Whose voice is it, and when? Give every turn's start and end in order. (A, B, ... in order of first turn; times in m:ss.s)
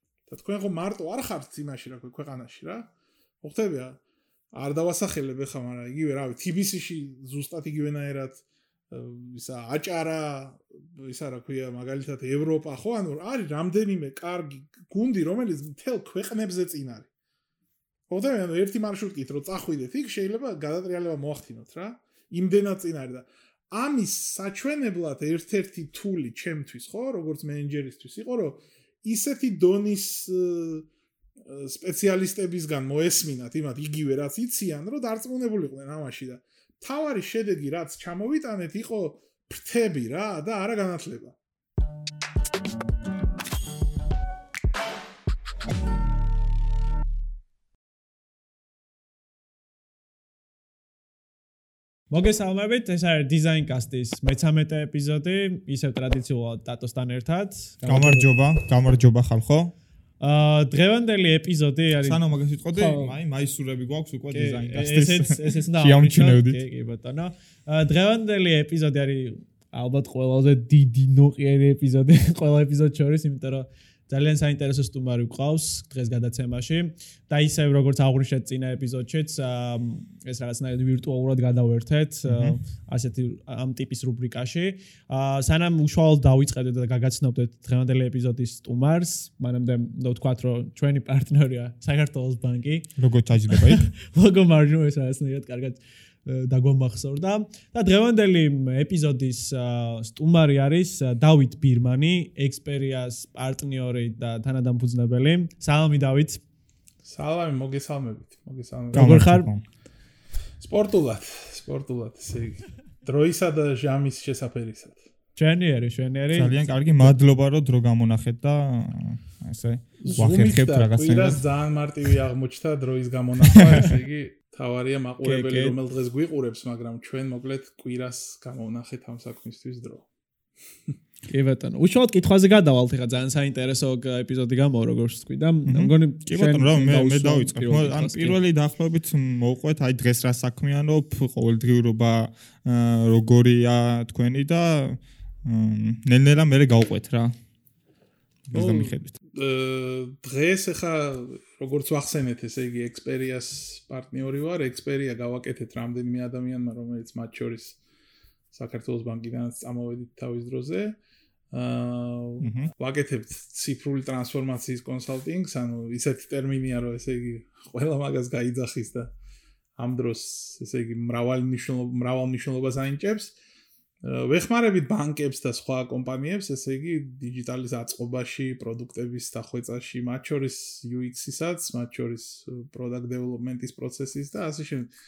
0:00.3-0:02.9 A
0:03.4-0:04.0 A
0:04.5-0:17.1 A
0:18.1-0:30.9 A
0:31.4-0:41.3 A
0:52.1-0:58.3 B
0:57.8-0:59.7 C
1:00.2-1:02.2 B
1:02.0-1:06.6 C
1:02.7-1:03.2 B
1:04.3-1:33.0 B
1:22.2-1:22.6 C
1:33.0-1:33.9 C
1:33.5-1:46.4 B
1:47.0-1:49.1 A
1:48.9-1:49.6 C
1:48.9-1:49.5 B
1:50.6-1:55.1 A
1:55.4-1:57.1 B
1:56.3-2:01.4 C
2:00.0-2:10.0 A
2:05.2-2:05.8 B
2:11.3-2:18.4 B
2:15.7-2:27.4 C
2:28.5-2:29.1 C
2:28.5-2:37.8 A
2:38.5-2:41.0 A
2:41.5-2:49.1 A
2:42.4-2:42.7 C
2:49.8-2:53.4 A
2:54.0-3:04.9 A